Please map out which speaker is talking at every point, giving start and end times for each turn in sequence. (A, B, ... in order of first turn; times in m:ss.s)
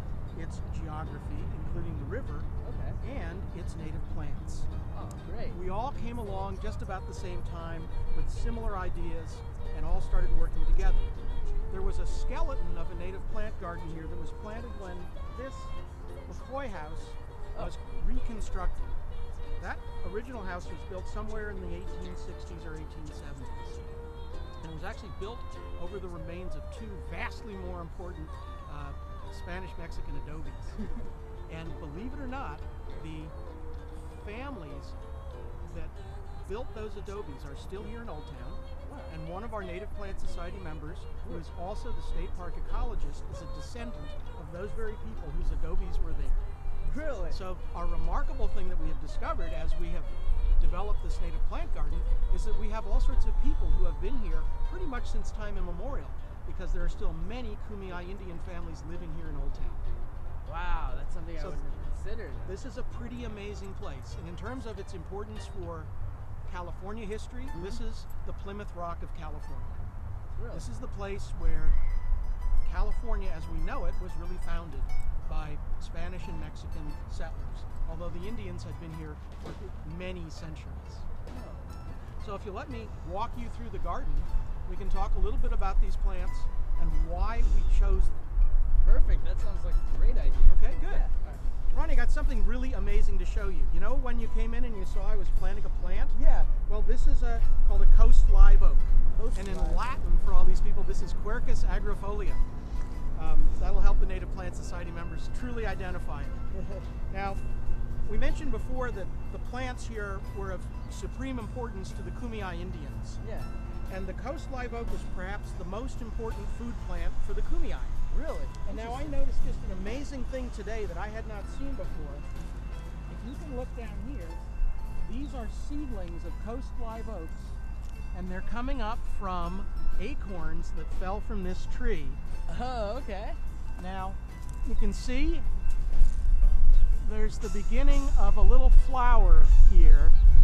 0:00.3-0:02.5 A
0:02.6-0:03.0 B
0:03.0-0:04.7 A
0:04.9-0:05.6 B
0:05.5-0:11.1 A
0:11.7-0:15.8 A
0:16.3-0:18.8 A
0:19.6-0:23.9 A
0:24.6-0:30.8 A
0:31.5-0:33.3 A
0:34.0-0:35.0 A
0:35.6-0:46.5 A
0:38.8-0:39.2 B
0:46.8-0:47.4 B
0:47.3-0:59.9 A
1:00.4-1:02.6 B
1:01.4-1:01.6 A
1:02.4-1:05.9 A
1:06.4-1:09.8 A
1:07.5-1:07.8 B
1:10.4-1:10.6 B
1:10.5-1:11.8 A
1:12.6-1:21.1 A
1:21.3-1:21.8 B
1:22.2-1:28.3 A
1:28.8-1:31.5 B
1:30.5-1:31.1 A
1:31.7-1:42.4 A
1:36.1-1:36.5 B
1:39.2-1:39.8 B
1:43.1-1:46.5 A
1:46.5-1:46.9 B
1:47.1-1:47.4 A
1:48.0-1:53.2 A
1:53.2-1:53.5 B
1:53.9-1:58.0 A
1:58.1-1:59.2 B
1:58.6-2:02.2 A
2:03.1-2:04.4 A
2:05.0-2:07.6 A
2:08.1-2:12.2 A
2:12.5-2:13.4 B
2:13.8-2:15.5 A
2:17.0-2:20.2 A